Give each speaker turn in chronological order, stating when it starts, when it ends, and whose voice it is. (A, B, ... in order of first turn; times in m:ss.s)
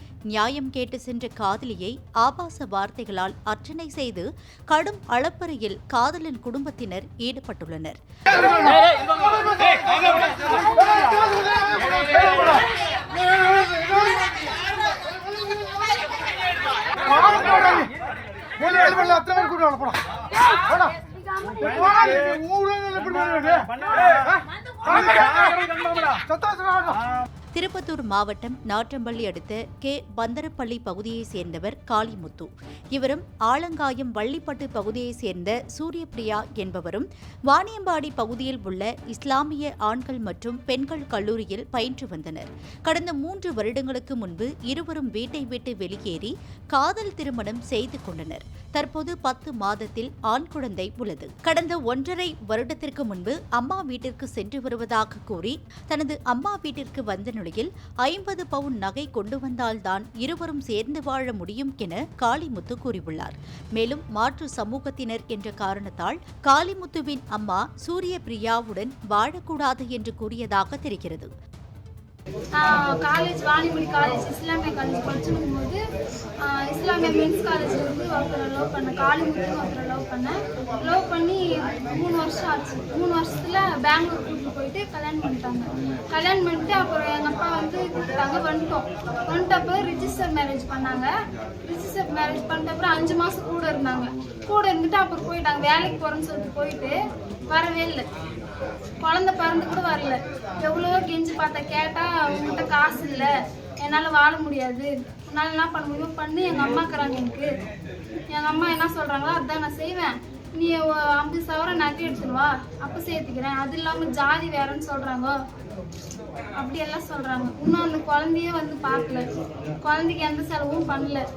0:00.3-0:08.9 A
0:09.7-0:12.6 B
0:13.2-0:14.2 B
0:17.0-0:17.9 B
0:18.6-0:20.0 B
0:21.3-0:22.3 C
0:22.3-0:23.8 B
0:26.1-0:27.0 B
0:27.6-1:11.3 A
1:12.6-1:15.8 C
1:16.4-1:31.1 C
1:31.6-1:37.0 C
1:37.5-1:38.1 C
1:39.0-1:43.3 C
1:43.8-1:47.5 C
1:48.3-1:55.4 C
1:56.6-1:59.2 C
1:59.8-2:01.2 C